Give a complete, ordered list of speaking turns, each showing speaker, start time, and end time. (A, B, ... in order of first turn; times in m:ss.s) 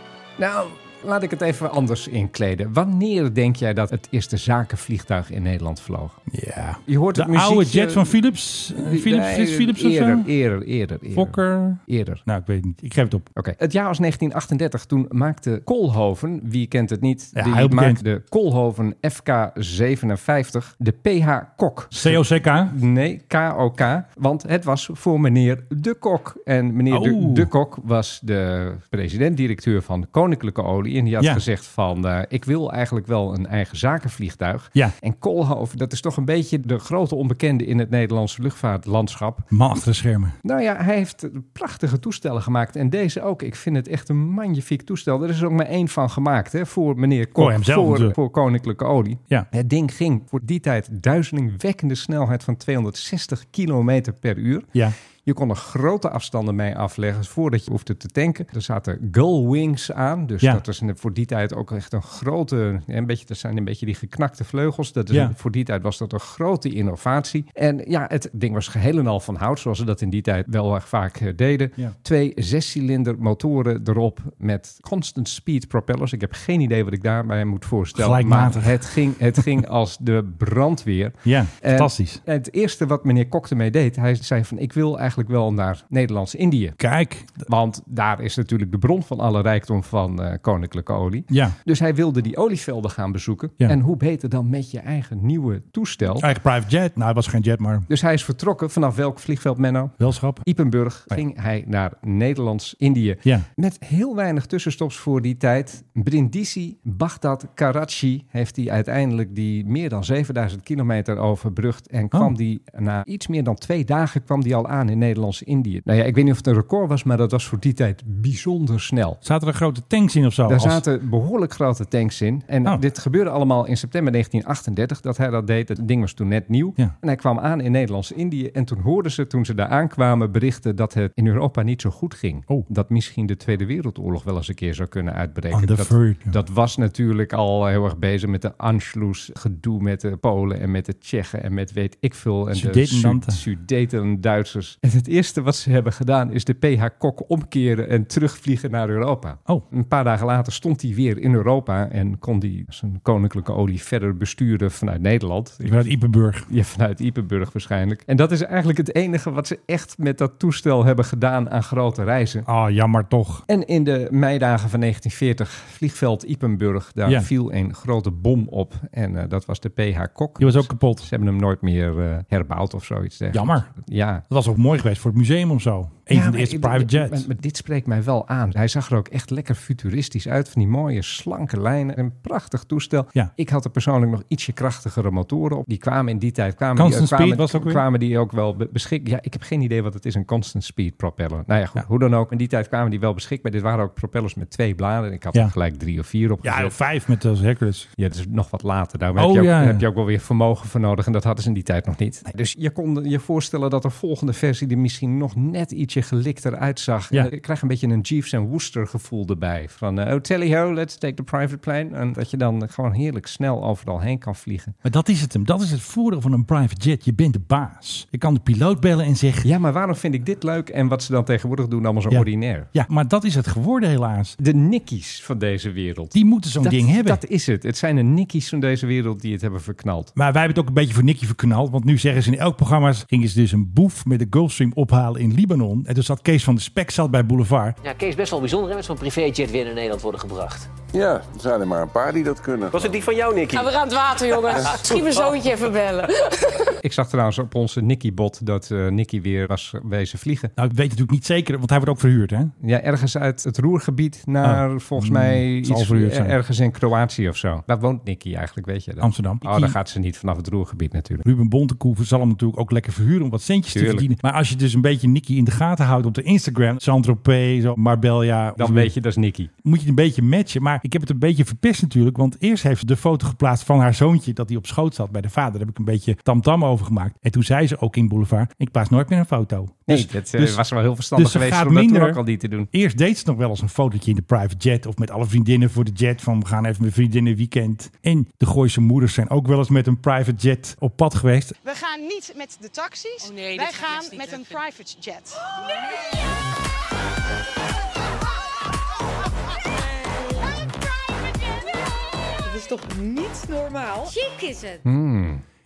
0:00.4-0:06.2 A
0:06.3-0:10.3 B
0:06.8-0:08.2 A
0:08.8-0:12.2 A
0:11.1-0:13.3 B
0:13.4-0:39.4 A
0:17.3-0:18.0 B
0:21.9-0:22.7 B
0:26.9-0:27.5 B
0:31.2-0:31.4 B
0:39.5-0:40.4 B
0:40.4-0:54.7 A
0:47.4-0:48.2 B
0:55.2-1:26.8 A
1:17.9-1:19.4 B
1:21.2-1:22.2 B
1:26.8-1:27.5 B
1:27.5-1:36.2 A
1:31.3-1:31.5 B
1:36.2-1:37.9 B
1:37.9-1:59.2 A
1:40.0-1:40.4 B
1:59.2-2:00.8 B
2:00.5-2:35.9 A
2:15.5-2:16.4 B
2:22.5-2:23.4 B
2:35.6-2:36.5 B
2:36.5-2:42.4 A
2:42.4-2:43.4 B
2:43.5-2:54.2 A
2:50.4-2:51.1 B
2:53.3-2:53.7 B
2:54.3-2:57.3 B
2:56.1-3:16.8 A
3:06.7-3:07.8 B
3:16.4-3:17.9 B
3:18.0-3:34.7 A
3:19.2-3:19.8 B
3:34.8-3:39.5 B
3:39.4-3:42.7 A
3:42.1-3:44.4 B
3:44.4-3:50.1 A
3:46.1-3:47.2 B
3:50.1-3:57.8 B
3:57.8-4:00.7 C
4:00.9-4:02.9 D
4:02.7-4:03.7 C
4:03.5-4:06.6 E
4:04.6-4:05.3 C
4:06.8-4:10.5 A
4:10.6-4:12.5 B
4:12.6-4:21.2 A
4:14.4-4:16.4 B
4:19.0-4:19.8 B
4:21.2-4:28.9 B
4:23.7-4:24.1 A
4:28.6-4:29.5 A
4:29.6-4:40.6 B
4:39.9-4:42.7 A
4:41.1-4:51.6 B
4:51.6-4:55.4 F
4:53.2-4:54.5 E
5:02.5-5:04.7 E
5:04.8-5:05.4 A